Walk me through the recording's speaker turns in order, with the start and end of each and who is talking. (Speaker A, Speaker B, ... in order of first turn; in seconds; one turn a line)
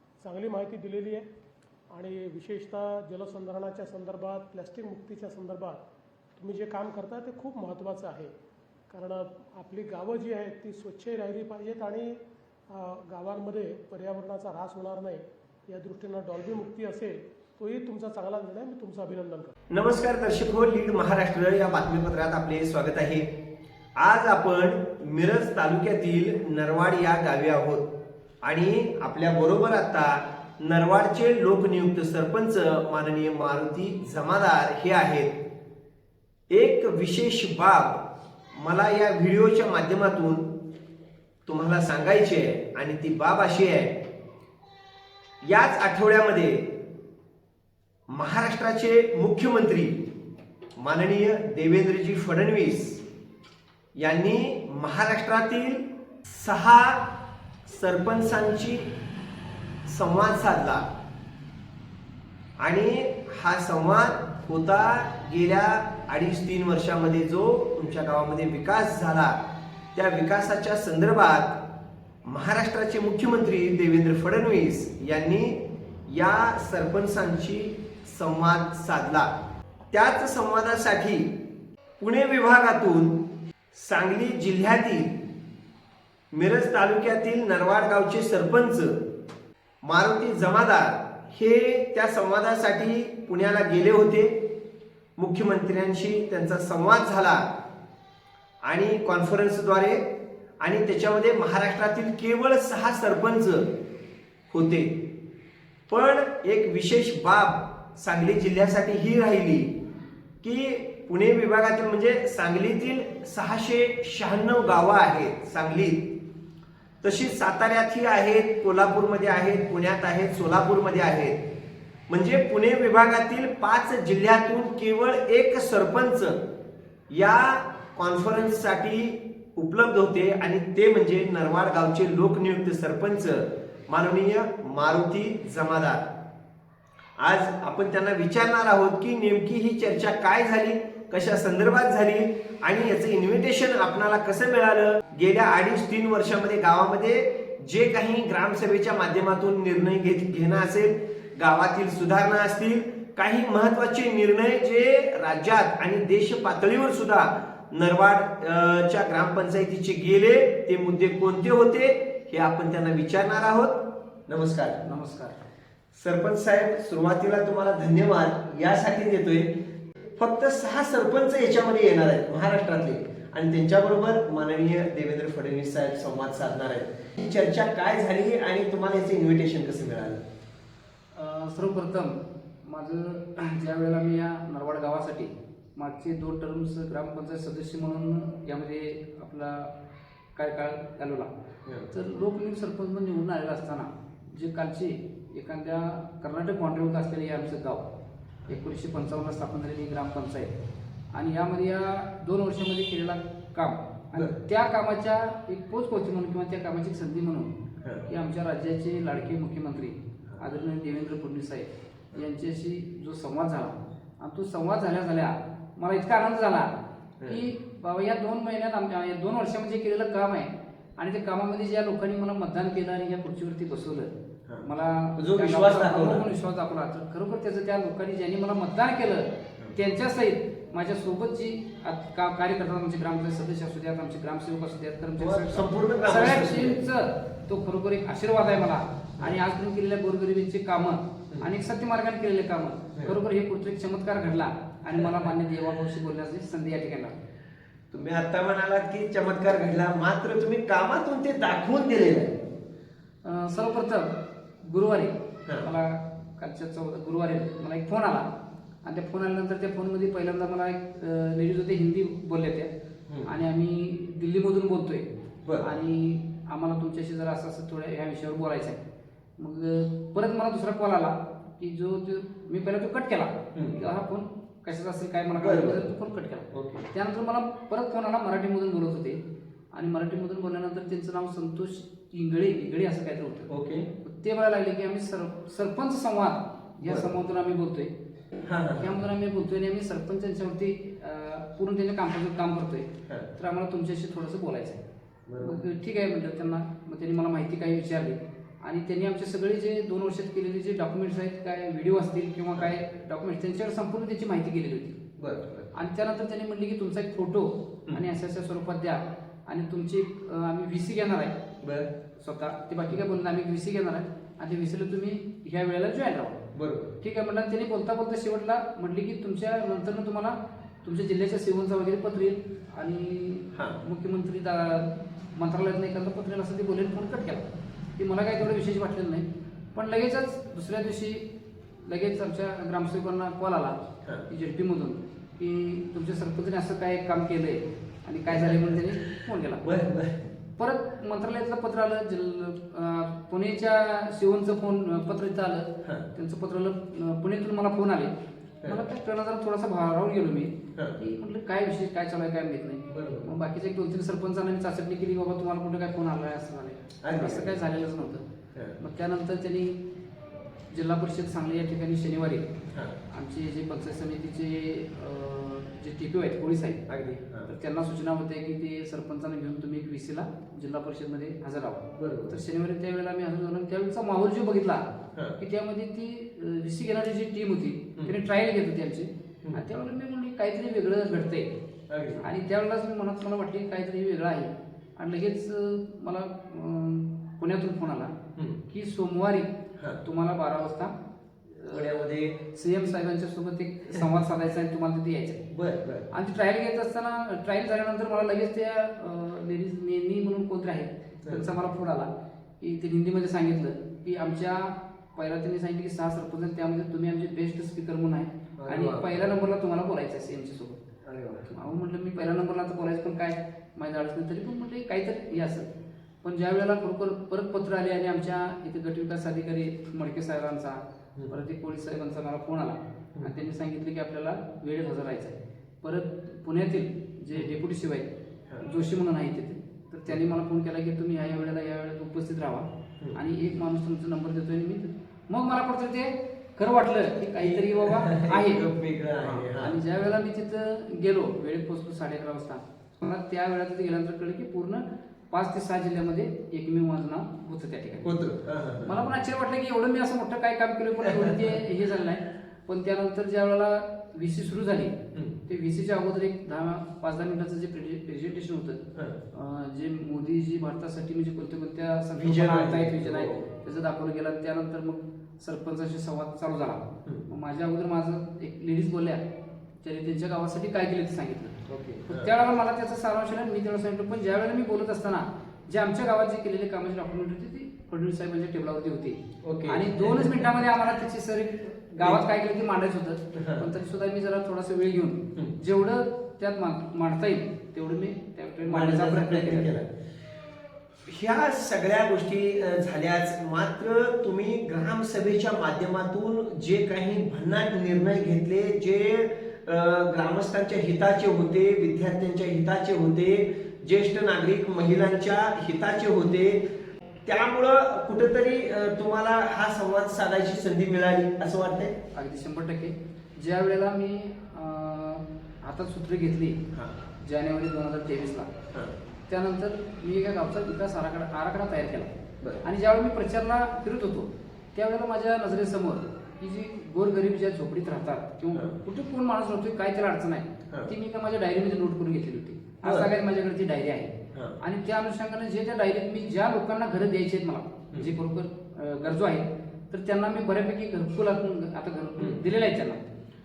Speaker A: 0.2-1.3
Speaker A: 1.9-5.8
Speaker A: 6.4-8.3
Speaker A: 8.9-19.5
Speaker B: 19.7-23.3
Speaker B: 24.0-27.9
Speaker B: 28.4-35.4
Speaker B: 36.5-38.0
Speaker B: 38.5-40.5
Speaker B: 41.5-44.0
Speaker B: 45.4-46.7
Speaker B: 48.1-50.0
Speaker B: 50.8-53.0
Speaker B: 54.0-57.1
Speaker B: 57.7-58.9
Speaker B: 59.9-60.9
Speaker B: 62.6-69.4
Speaker B: 70.0-71.6
Speaker B: 72.2-79.3
Speaker B: 79.9-81.3
Speaker B: 82.0-83.2
Speaker B: 83.7-85.2
Speaker B: 86.3-89.0
Speaker B: 89.8-94.4
Speaker B: 95.2-97.5
Speaker B: 98.7-100.0
Speaker B: 100.6-103.7
Speaker B: 104.5-105.0
Speaker B: 105.9-109.7
Speaker B: 110.4-116.1
Speaker B: 117.0-121.4
Speaker B: 122.1-126.4
Speaker B: 127.1-136.0
Speaker B: 137.2-164.8
Speaker C: 164.8-165.4
Speaker B: 165.9-169.5
Speaker B: 170.2-180.2
Speaker C: 181.1-189.7
Speaker C: 190.4-191.3
Speaker C: 191.9-197.9
Speaker C: 198.5-200.5
Speaker C: 201.1-207.5
Speaker C: 208.1-216.7
Speaker C: 217.3-247.2
Speaker B: 224.5-226.2
Speaker B: 235.2-236.9
Speaker B: 244.9-245.3
Speaker B: 247.9-252.4
Speaker C: 253.2-258.3
Speaker C: 258.8-262.7
Speaker C: 263.2-268.8
Speaker C: 269.4-279.2
Speaker B: 275.4-275.9
Speaker B: 276.5-276.9
Speaker C: 279.7-283.5
Speaker B: 283.5-283.9
Speaker C: 284.0-287.9
Speaker B: 286.8-287.1
Speaker B: 288.5-289.0
Speaker C: 288.8-294.8
Speaker B: 295.3-295.6
Speaker C: 295.4-305.0
Speaker B: 305.2-305.7
Speaker C: 305.7-311.4
Speaker B: 311.6-311.9
Speaker C: 312.2-316.4
Speaker B: 316.5-317.0
Speaker C: 317.0-327.5
Speaker B: 323.5-323.8
Speaker C: 328.0-331.3
Speaker C: 331.8-339.7
Speaker B: 338.3-340.3
Speaker C: 340.6-348.1
Speaker C: 348.7-358.3
Speaker B: 352.9-353.3
Speaker B: 357.0-357.6
Speaker C: 358.8-359.8
Speaker C: 360.7-362.5
Speaker B: 362.7-363.0
Speaker C: 363.1-366.9
Speaker B: 366.9-367.5
Speaker C: 367.5-381.5
Speaker B: 371.9-372.4
Speaker B: 381.9-382.2
Speaker C: 382.2-390.9
Speaker C: 391.5-395.4
Speaker B: 391.7-392.4
Speaker B: 395.5-396.1
Speaker C: 396.1-410.8
Speaker B: 401.2-401.5
Speaker B: 408.6-409.1
Speaker B: 411.1-411.6
Speaker C: 411.5-415.7
Speaker C: 416.2-428.1
Speaker C: 428.6-438.6
Speaker B: 437.4-439.8
Speaker C: 439.2-448.1
Speaker B: 448.0-449.0
Speaker C: 448.8-469.2
Speaker B: 451.0-451.6
Speaker B: 462.2-463.5
Speaker C: 469.8-489.7
Speaker B: 471.7-472.3
Speaker B: 479.4-480.7
Speaker B: 483.3-483.7
Speaker B: 488.6-489.9
Speaker B: 491.1-506.6
Speaker B: 507.2-512.0
Speaker C: 512.1-516.6
Speaker C: 517.2-518.5
Speaker C: 519.3-543.0
Speaker B: 532.8-533.1
Speaker B: 534.3-534.6